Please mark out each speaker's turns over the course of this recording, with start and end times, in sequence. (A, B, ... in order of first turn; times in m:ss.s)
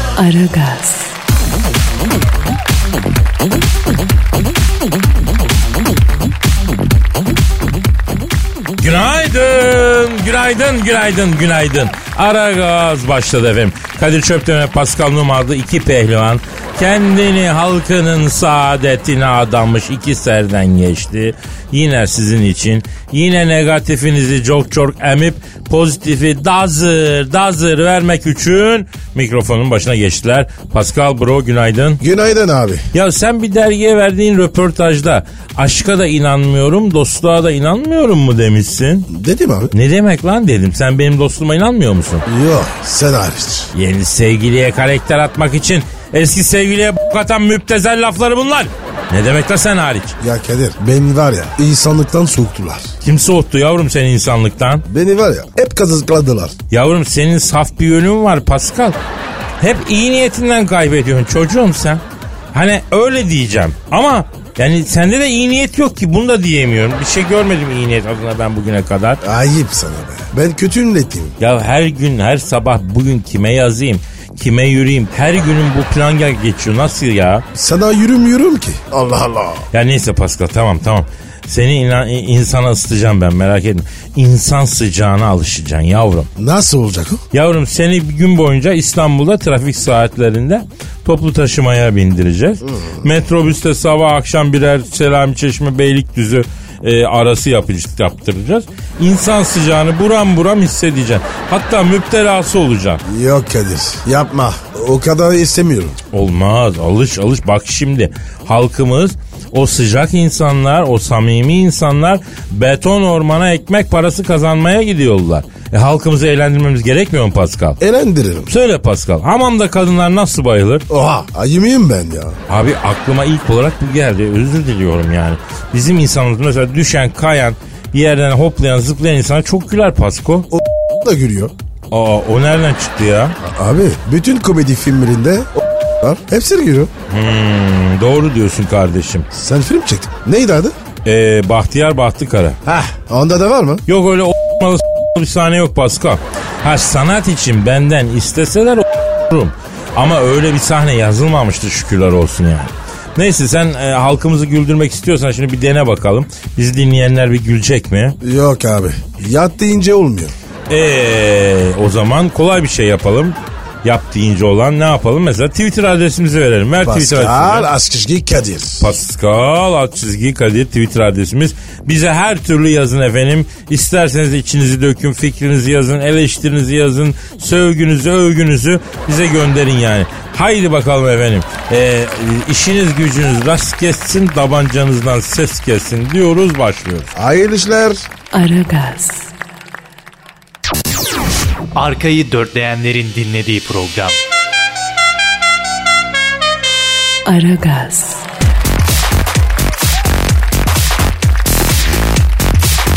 0:00.2-0:01.1 A
0:08.8-0:32.0 B
0:32.0-0:32.9 C
0:32.9-0:39.1 B
0:39.1-0:39.7 C
0:39.7-0:42.2 B
0:42.3-0:43.7 C
0:43.7-0:50.2 B
0:50.2-0:52.9 C
0:53.0-0:54.8 B
0:54.9-0:56.6 C
0:56.7-0:59.0 B
0:59.6-1:02.0 B
1:02.5-1:09.2 B
1:09.2-1:11.4 C
1:11.4-1:17.4 B
1:17.6-1:19.7 C
1:19.7-1:26.3 B
1:26.4-1:27.2 C
1:27.3-1:43.0 B
1:32.6-1:33.0 C
1:43.0-1:46.0 C
1:46.1-1:57.8 B
1:57.8-1:58.5 C
1:58.5-2:00.9 B
2:00.9-2:02.4 C
2:02.5-2:10.5 B
2:10.5-2:11.5 C
2:11.9-2:13.4 B
2:13.4-2:16.9 C
2:17.1-2:19.3 B
2:19.3-2:20.8 C
2:21.0-2:22.6 B
2:22.6-2:23.8 C
2:23.9-2:38.2 B
2:38.2-2:40.4 C
2:40.7-2:47.7 B
2:46.8-2:48.9 C
2:48.8-3:07.1 B
3:07.2-3:08.1 C
3:08.3-3:09.3 A
3:11.8-3:14.2 D
3:17.3-3:18.3 A